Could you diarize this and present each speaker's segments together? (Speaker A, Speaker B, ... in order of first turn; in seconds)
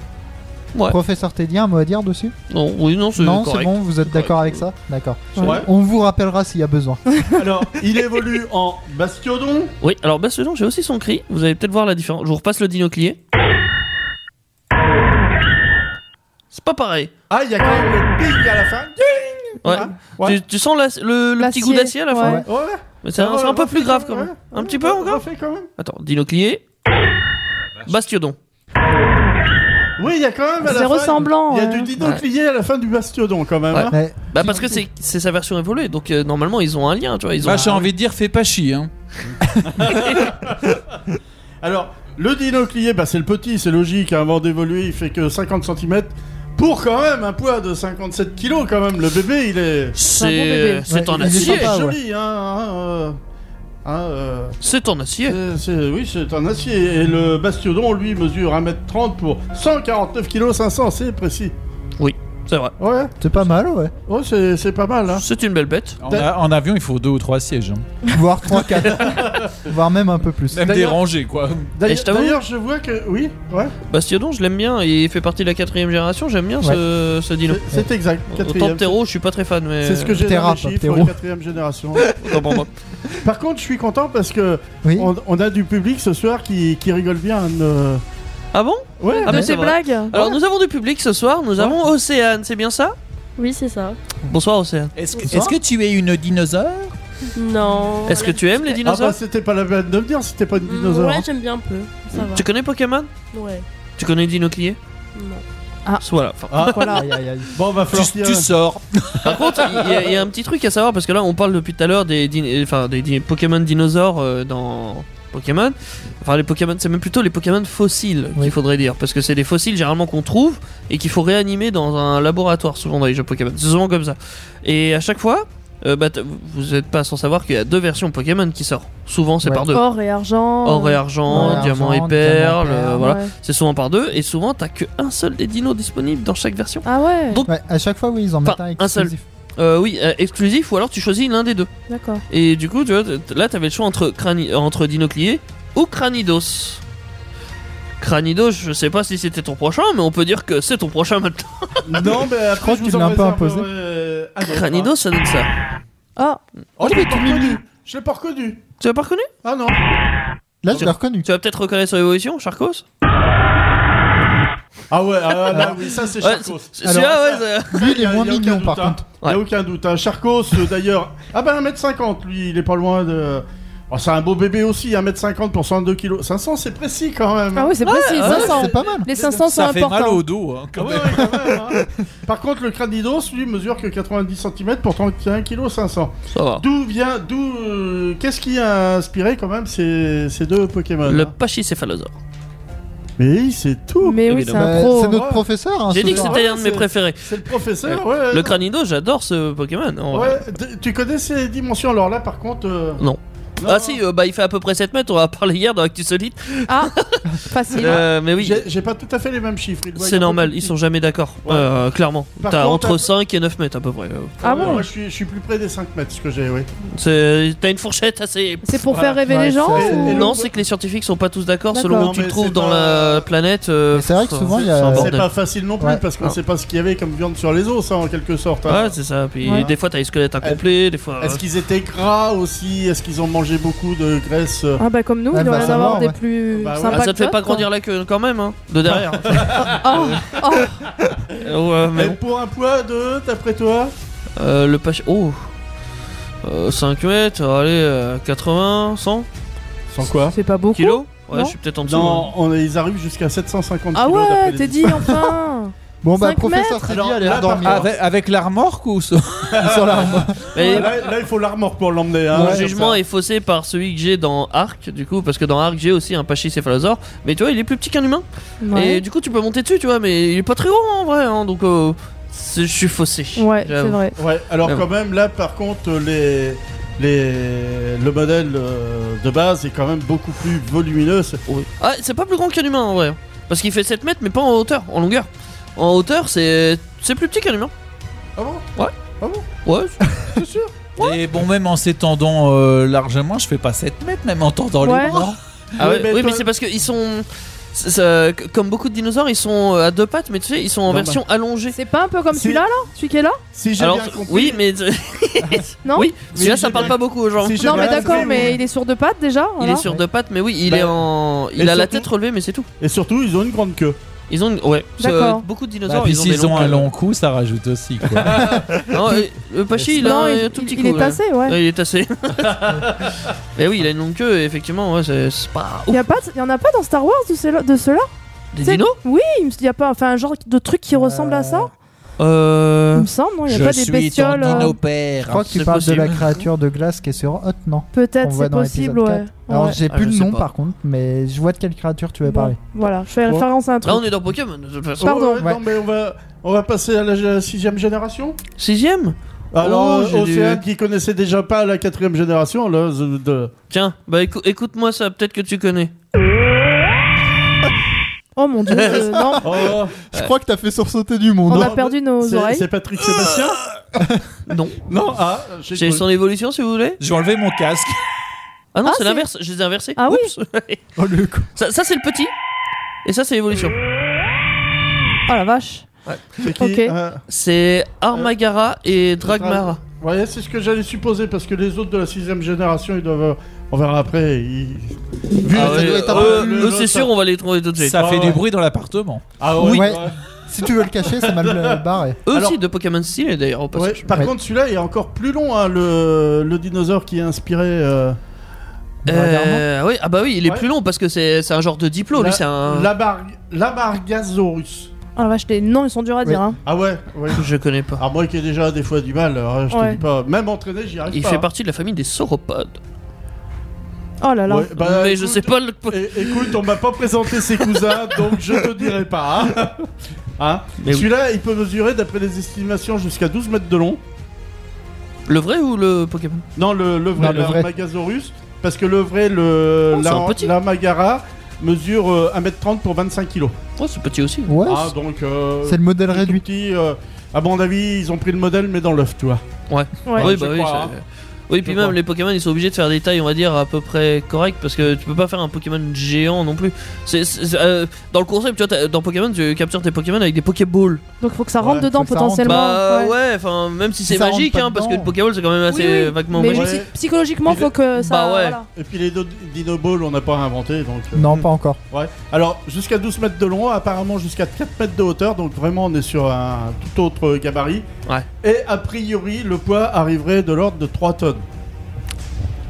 Speaker A: 0.9-2.3, 3.1-7.0, 22.2-22.4, 33.9-34.8, 50.9-52.0, 63.2-63.9, 68.1-70.7, 80.2-81.2, 84.8-85.1, 95.2-95.5, 106.9-107.5, 131.3-133.1, 137.5-139.2, 152.6-153.7, 156.8-157.6, 160.6-161.3, 165.5-165.8, 166.8-169.1, 178.2-179.1, 194.6-196.4, 219.3-220.3, 223.9-225.2, 235.3-236.2, 256.0-257.9, 259.6-260.4, 262.3-262.7, 295.1-295.4, 318.3-318.6, 330.9-331.7, 334.4-342.6, 360.1-361.8, 364.0-364.2, 370.9-371.5, 385.5-386.7, 389.6-392.2, 399.0-399.6, 427.1-427.7, 434.5-434.9, 435.6-436.4, 451.6-452.6, 454.1-455.1, 461.1-461.8
Speaker B: 2.5-4.6, 9.8-13.2, 16.5-17.1, 19.6-22.4, 23.0-25.1, 25.8-26.6, 27.9-28.4, 33.7-37.8, 39.9-40.2, 50.0-51.7, 54.6-55.4, 62.0-62.7, 65.1-66.0, 71.9-72.4, 73.9-77.6, 78.3-80.2, 82.1-82.7, 88.5-93.0, 94.2-94.9, 98.0-99.2, 102.1-103.1, 104.0-104.8, 106.0-107.0, 109.2-129.8, 130.6-137.5, 138.4-141.7, 142.3-146.8, 148.0-152.1, 154.4-155.5, 158.8-159.3, 160.7-162.8, 165.5-167.8, 177.8-178.7, 186.3-186.6, 191.1-192.2, 194.2-194.7, 195.9-200.4, 203.0-208.6, 209.9-214.8, 216.9-218.9, 219.9-225.3, 228.7-231.4, 236.9-240.3, 241.4-242.2, 244.4-245.5, 246.4-249.3, 250.7-252.3, 260.5-260.9, 262.3-274.0, 281.5-287.7, 289.6-290.0, 295.8-301.8, 303.8-308.5, 309.6-312.7, 314.3-316.9, 318.9-322.9, 323.6-326.0, 328.5-329.0, 332.2-333.1, 335.5-336.4, 339.7-340.5, 343.8-345.3, 348.6-350.6, 353.7-355.9, 358.7-360.3, 364.5-364.8, 365.7-367.0, 368.7-370.8, 371.6-372.3, 373.0-373.7, 377.3-379.8, 385.5-388.0, 389.6-389.9, 392.3-394.1, 399.1-402.9, 407.4-408.0, 411.1-412.8, 414.7-416.4, 420.8-421.1, 425.3-426.4, 429.9-430.5, 433.8-434.5, 439.7-451.0, 452.4-456.8, 457.9-458.6
Speaker C: 5.4-5.7, 7.4-9.7, 17.3-20.4, 22.4-25.7, 30.0-34.6, 37.6-37.8, 39.6-40.8, 41.6-50.0, 51.1-53.2, 53.8-54.6, 55.2-61.5, 62.8-63.1, 64.1-65.2, 69.1-69.4, 70.7-71.0, 71.7-73.7, 77.5-79.0, 79.8-82.1, 83.2-88.0, 89.0-89.4, 98.8-101.3, 106.5-108.5, 109.3-110.2, 151.8-154.9, 156.8-158.6, 159.4-159.8, 164.9-178.4, 180.8-191.3, 193.2-194.2, 194.9-198.6, 200.1-203.0, 203.6-204.0, 207.8-210.7, 212.4-213.1, 214.4-216.7, 218.9-220.5, 221.8-223.2, 224.8-229.0, 231.2-234.8, 235.4-237.1, 238.8-240.3, 241.9-243.9, 249.9-250.3, 251.8-255.1, 256.8-257.9, 259.5-263.0, 274.2-281.4, 288.4-288.7, 289.2-289.4, 290.3-290.7, 295.8-296.4, 300.9-301.2, 302.3-302.6, 303.5-304.6, 306.3-308.6, 310.7-312.1, 312.8-314.0, 318.2-319.0, 319.8-320.1, 322.6-323.1, 345.0-348.4, 349.5-353.5, 359.4-359.9, 361.5-363.6, 364.9-366.0, 376.4-377.2, 379.2-387.1, 388.0-388.4, 389.4-390.1, 391.0-392.6, 393.7-398.2, 402.1-404.9, 406.6-411.4, 414.4-419.9, 420.4-424.0, 426.6-433.6, 434.6-439.4, 440.1-440.9, 441.6-442.0, 451.6-451.9, 456.5-456.9, 457.4-457.7, 458.7-467.9, 468.4-471.4
Speaker D: 17.6-17.9, 21.4-22.4, 24.5-25.1, 30.6-31.9, 50.1-51.0, 89.1-90.3, 106.7-107.0, 129.7-131.7, 133.0-133.3, 136.8-137.4, 141.9-142.2, 156.2-156.4, 177.5-180.2, 194.0-195.2, 206.7-208.0, 214.4-214.9, 218.6-220.3, 221.7-222.1, 234.8-237.7, 239.6-240.7, 250.3-251.6, 253.9-256.9, 260.6-260.9, 268.6-269.0, 273.4-274.1, 294.8-295.2, 301.7-303.4, 305.8-306.2, 307.6-309.9, 315.0-315.4, 319.9-321.6, 325.9-328.1, 328.6-331.7, 332.9-334.8, 337.9-339.8, 342.2-344.1, 345.0-345.4, 358.4-359.6, 361.5-362.7, 368.8-369.2, 370.0-370.3, 375.3-375.9, 376.6-376.9, 405.1-406.6, 409.7-410.0, 414.2-414.7, 440.1-440.3, 451.2-453.1, 455.7-458.6
Speaker E: 37.4-38.9, 66.0-67.9, 70.5-71.7, 95.0-96.9, 107.9-109.4, 179.2-181.9, 257.6-259.9, 291.0-295.4, 315.9-318.6, 333.5-335.5, 367.0-368.0, 387.8-389.2
Speaker F: 93.4-94.0, 97.3-98.6, 100.6-102.5, 103.3-103.6, 105.1-105.4